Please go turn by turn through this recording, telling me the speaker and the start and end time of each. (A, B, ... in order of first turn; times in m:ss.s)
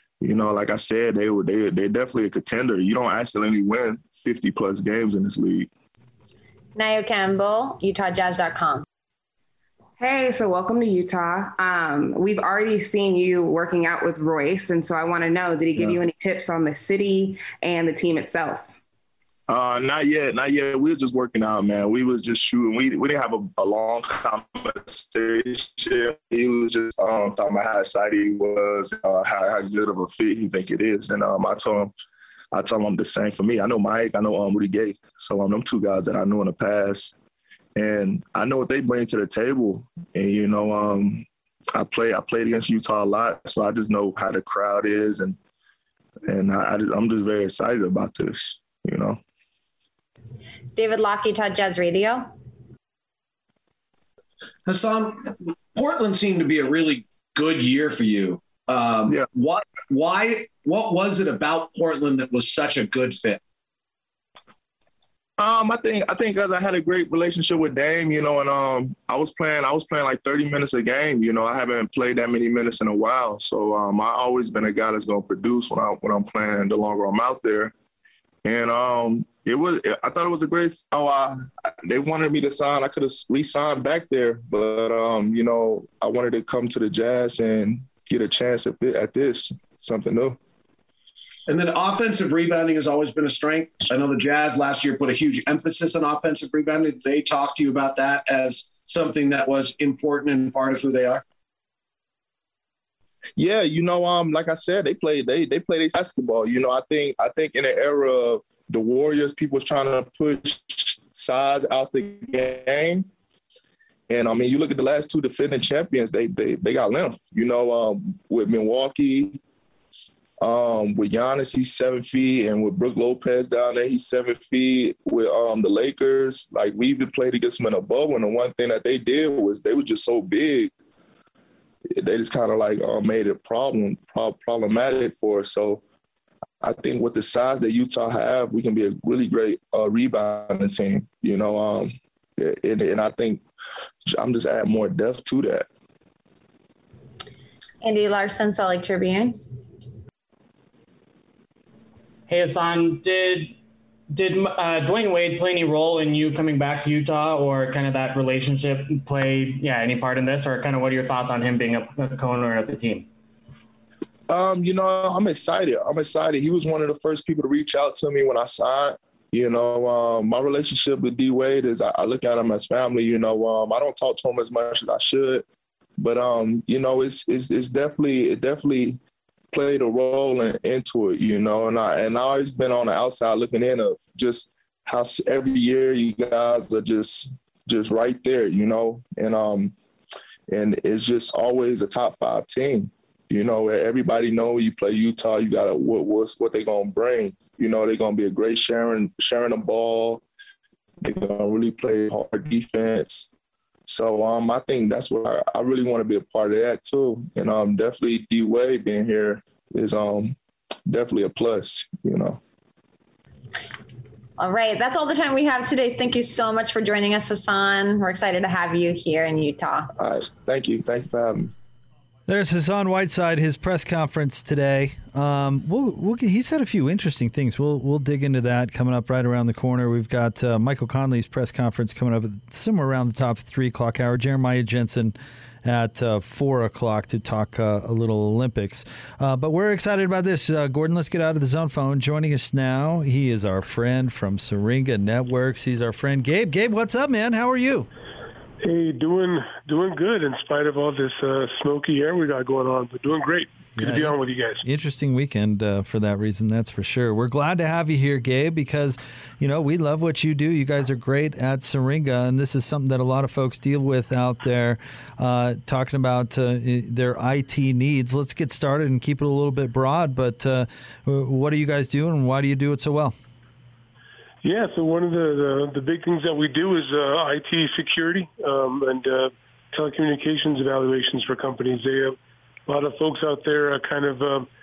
0:00.2-0:05.7 A
0:06.8-0:08.8 B
0:10.0-0:18.6 C
0:19.5-0:31.9 A
0:32.5-0:37.1 A
0:37.8-0:45.4 A
0:46.3-0:49.2 A
0:50.8-0:52.3 B
0:54.6-1:03.4 D
1:05.4-1:17.7 A
1:18.4-1:30.4 A
1:31.5-1:41.2 D
1:43.4-1:53.1 A
1:54.1-1:59.4 A
2:00.4-2:10.7 A
2:11.9-2:15.8 A
2:16.6-2:23.4 A
2:24.1-2:25.6 A
2:27.8-2:29.4 B
2:32.3-2:33.5 E
2:34.1-2:43.1 E
2:44.3-2:55.4 A
2:56.0-2:59.0 A
2:59.5-3:09.7 A
3:10.5-3:20.2 A
3:21.0-3:23.3 A
3:23.9-3:30.3 A
3:30.8-3:32.4 A
3:34.4-3:39.9 B
3:40.0-3:41.5 A
3:42.3-4:07.9 F
4:08.6-4:14.6 G
4:13.8-4:33.1 F
4:34.4-4:42.2 G
4:42.7-4:44.5 G